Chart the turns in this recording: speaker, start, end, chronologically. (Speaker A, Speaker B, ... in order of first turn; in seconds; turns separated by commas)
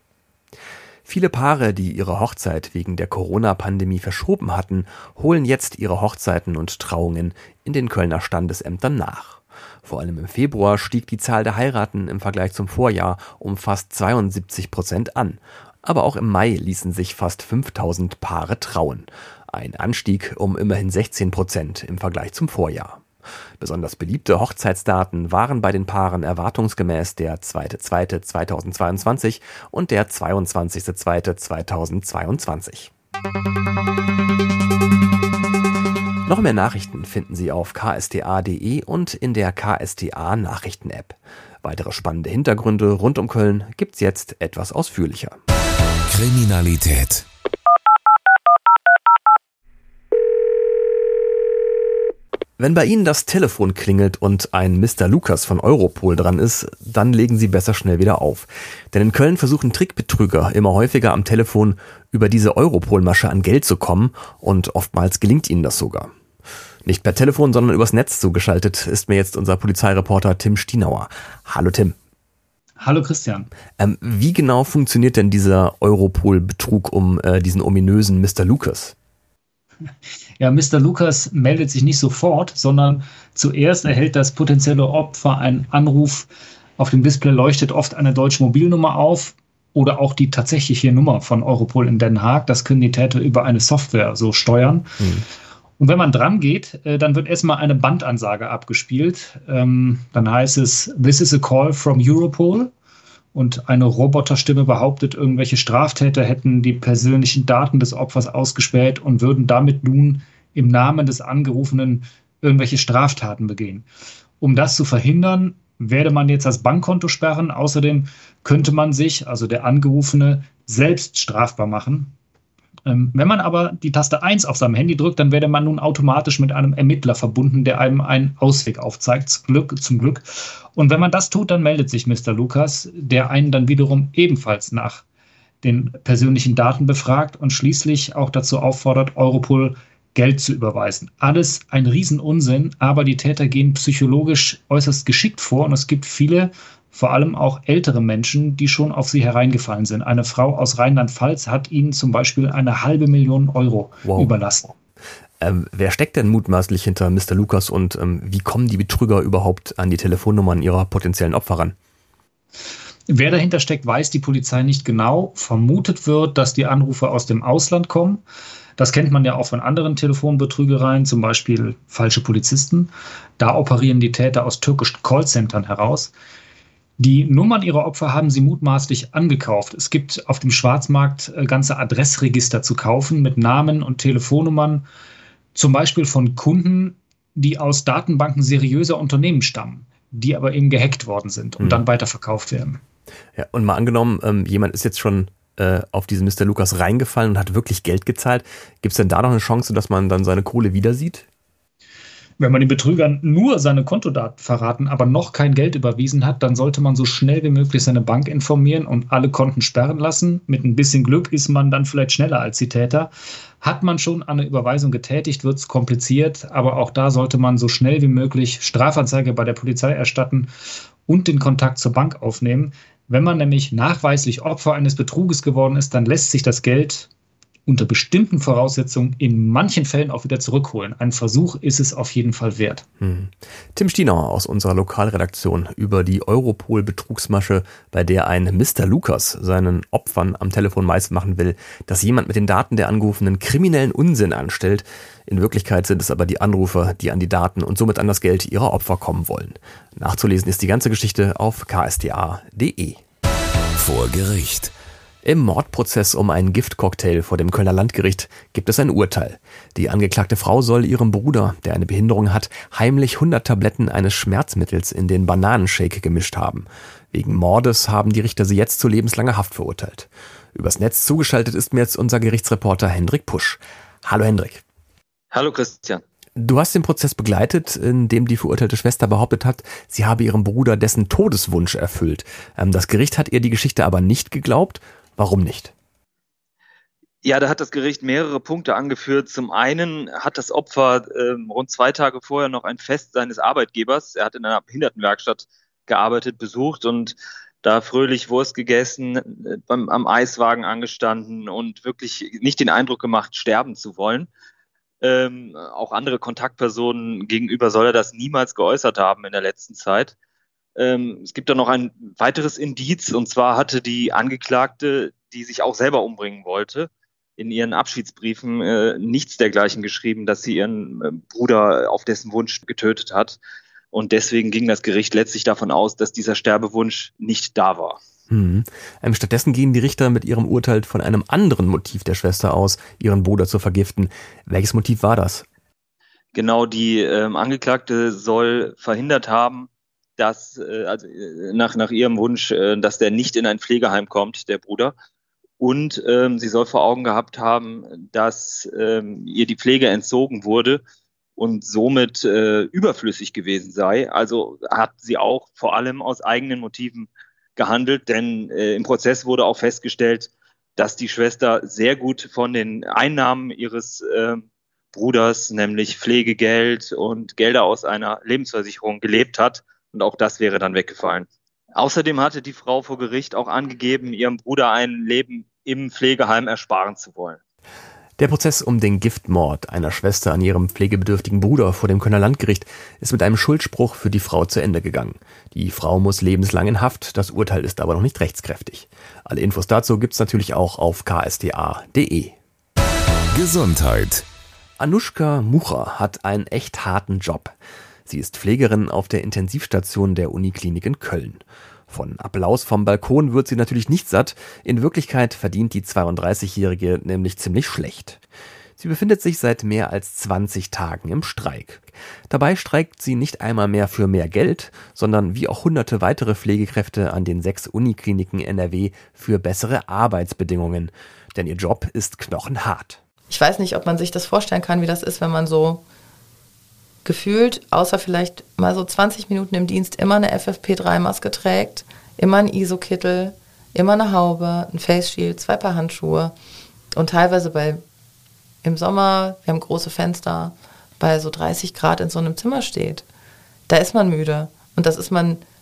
Speaker A: 1.1-23.0, Speaker A: 23.6-32.9, Speaker A: 36.3-45.4, Speaker B: 46.1-47.2, Speaker A: 52.6-66.1, Speaker A: 66.8-72.0, Speaker C: 72.8-73.5, Speaker A: 73.8-78.9, Speaker C: 80.4-95.0, Speaker C: 95.8-102.7, Speaker C: 103.3-113.8, Speaker C: 114.4-122.1, Speaker C: 122.8-135.0, Speaker C: 135.6-154.7, Speaker A: 155.4-161.7, Speaker C: 163.1-168.2, Speaker C: 168.8-176.1, Speaker C: 177.0-184.9, Speaker C: 185.5-192.8, Speaker A: 193.3-201.3, Speaker C: 202.4-220.5, Speaker C: 221.1-227.1, Speaker C: 227.7-232.8, Speaker A: 233.0-253.0, Speaker B: 253.8-254.7, Speaker A: 255.2-274.6, Speaker D: 275.3-276.0, Speaker A: 276.4-285.7, Speaker D: 287.2-304.3, Speaker D: 305.0-310.1, Speaker D: 310.8-323.4, Speaker D: 323.9-328.0, Speaker A: 328.3-335.4, Speaker D: 336.3-344.9, Speaker D: 345.6-350.8, Speaker D: 351.4-377.4, Speaker A: 378.2-392.4, Speaker B: 393.3-394.2, Speaker A: 394.8-397.6, Speaker A: 398.1-408.2, Speaker A: 408.8-423.0, Speaker E: 423.3-425.8, Speaker E: 427.0-436.3, Speaker E: 436.9-437.8, Speaker E: 438.6-443.0, Speaker E: 443.7-445.4